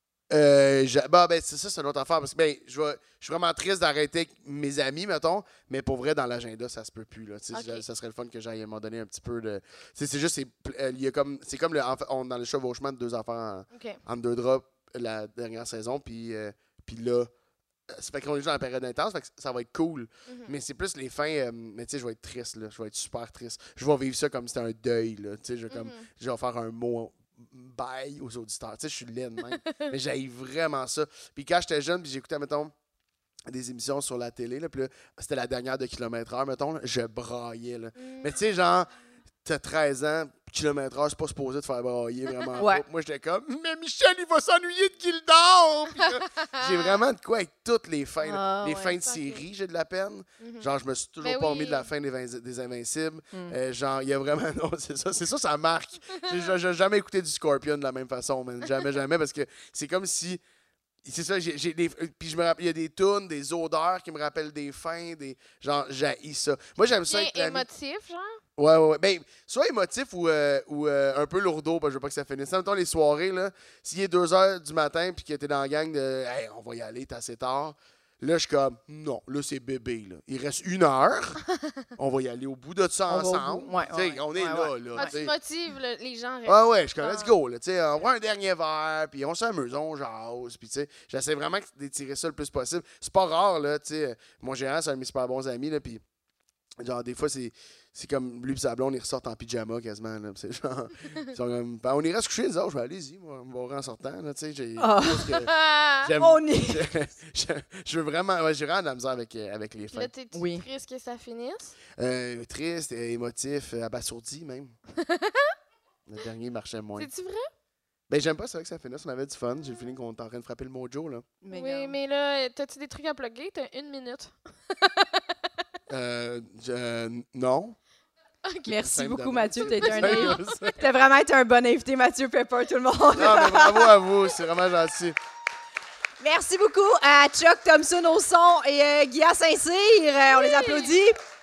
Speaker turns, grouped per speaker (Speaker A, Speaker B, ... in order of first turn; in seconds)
Speaker A: 0.3-17.3, 17.9-32.7, 33.5-38.9, 39.4-60.4, 61.0-67.7, 68.6-81.4, 82.0-85.3, 86.5-96.0, 96.8-110.1, 112.0-114.8, 116.1-117.1, 118.1-121.2, 125.9-127.8, 128.9-130.8, 133.2-135.2
Speaker B: 7.5-7.8, 13.7-14.0, 20.3-20.5, 25.7-26.1, 29.5-29.9, 38.0-38.4, 46.0-46.9, 48.7-49.4, 50.4-50.7, 51.2-51.9, 67.1-68.4, 84.9-87.3, 105.3-106.1, 109.9-111.8, 115.0-115.5, 117.0-117.5, 121.5-125.2, 128.4-129.0, 129.6-130.7, 140.3-141.0
Speaker C: 42.6-42.8, 48.2-48.9, 83.1-85.2, 104.8-105.3, 106.2-106.9, 110.3-110.6, 121.4-122.0, 128.7-133.9, 136.2-141.2